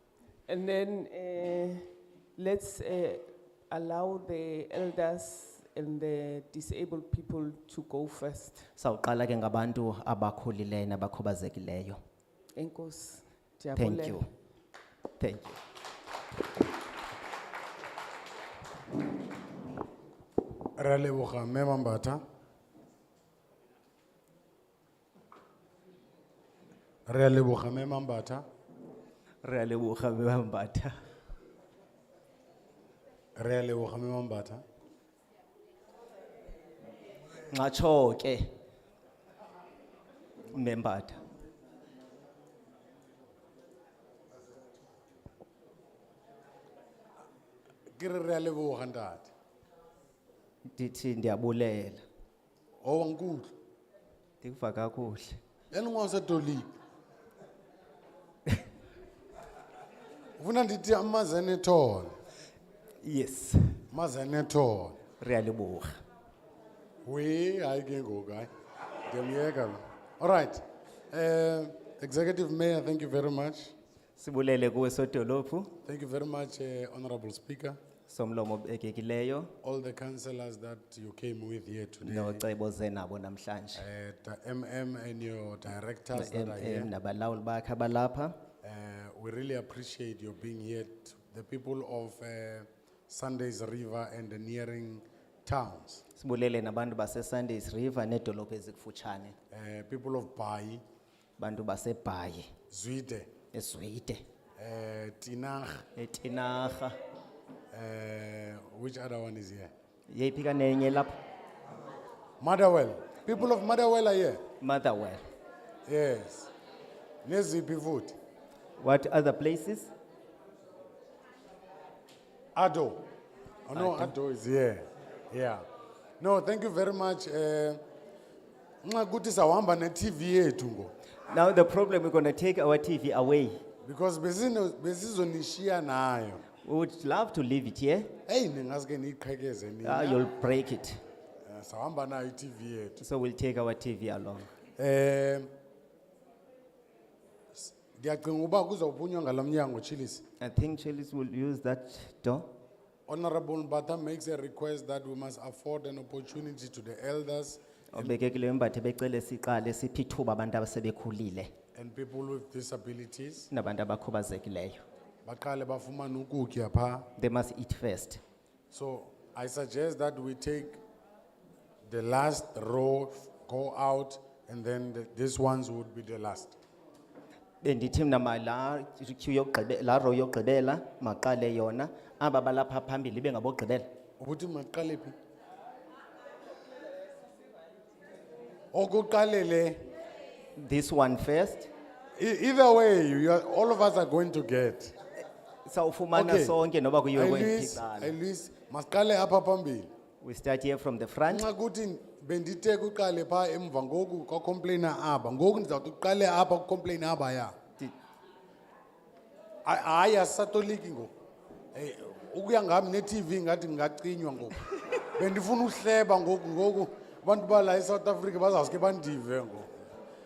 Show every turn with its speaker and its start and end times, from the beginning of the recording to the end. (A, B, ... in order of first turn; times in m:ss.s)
0:00.5-0:08.7 A
0:08.8-0:12.0 B
0:12.5-0:14.2 A
0:13.8-0:14.3 B
0:15.2-0:15.6 B
0:20.8-0:22.2 C
0:27.1-0:28.4 C
0:29.4-0:30.9 B
0:33.4-0:34.6 C
0:37.5-0:38.5 B
0:40.5-0:41.2 B
0:48.0-0:49.3 C
0:50.7-0:52.0 B
0:52.8-0:53.5 C
0:54.4-0:55.4 B
0:55.7-0:56.7 C
1:00.4-1:02.1 C
1:03.0-1:03.8 B
1:03.9-1:05.0 C
1:05.2-1:05.9 B
1:07.0-1:08.5 C
1:09.1-1:13.7 C
1:14.2-1:15.7 B
1:15.8-1:17.8 C
1:18.1-1:19.5 B
1:19.6-1:22.4 C
1:22.0-1:23.8 B
1:23.8-1:26.9 C
1:26.1-1:28.4 B
1:28.6-1:36.0 C
1:36.1-1:39.4 B
1:39.5-1:40.8 C
1:41.4-1:42.5 B
1:42.7-1:43.3 C
1:43.5-1:44.2 B
1:44.6-1:45.8 C
1:46.0-1:47.0 B
1:47.7-1:49.7 C
1:50.1-1:51.2 B
1:52.4-1:54.4 C
1:54.6-1:55.2 B
1:55.9-1:56.5 C
1:57.2-1:58.1 C
1:58.8-1:59.9 B
2:02.5-2:03.0 C
2:03.7-2:05.6 C
2:03.7-2:04.1 B
2:06.2-2:07.8 C
2:08.8-2:10.9 C
2:11.3-2:13.6 B
2:13.8-2:16.4 C
2:16.6-2:18.1 B
2:18.3-2:20.2 C
2:19.8-2:21.0 B
2:21.4-2:23.0 C
2:23.0-2:24.5 B
2:24.8-2:25.5 C
2:27.5-2:30.2 C
2:30.4-2:32.5 B
2:33.1-2:38.2 C
2:37.9-2:41.5 B
2:41.7-2:43.5 C
2:43.5-2:44.8 B
2:45.2-2:47.1 C
2:47.2-2:48.2 B
2:48.7-2:50.8 C
2:51.8-2:56.6 C
2:57.6-3:03.9 B
3:04.2-3:05.1 C
3:08.7-3:09.8 C
3:10.6-3:11.7 B
3:12.2-3:14.9 C
3:15.6-3:18.1 B
3:16.1-3:16.6 C
3:17.1-3:19.9 C
3:20.2-3:21.5 B
3:21.3-3:27.5 C
3:29.6-3:31.1 C
3:31.7-3:34.6 C
3:35.1-3:39.8 C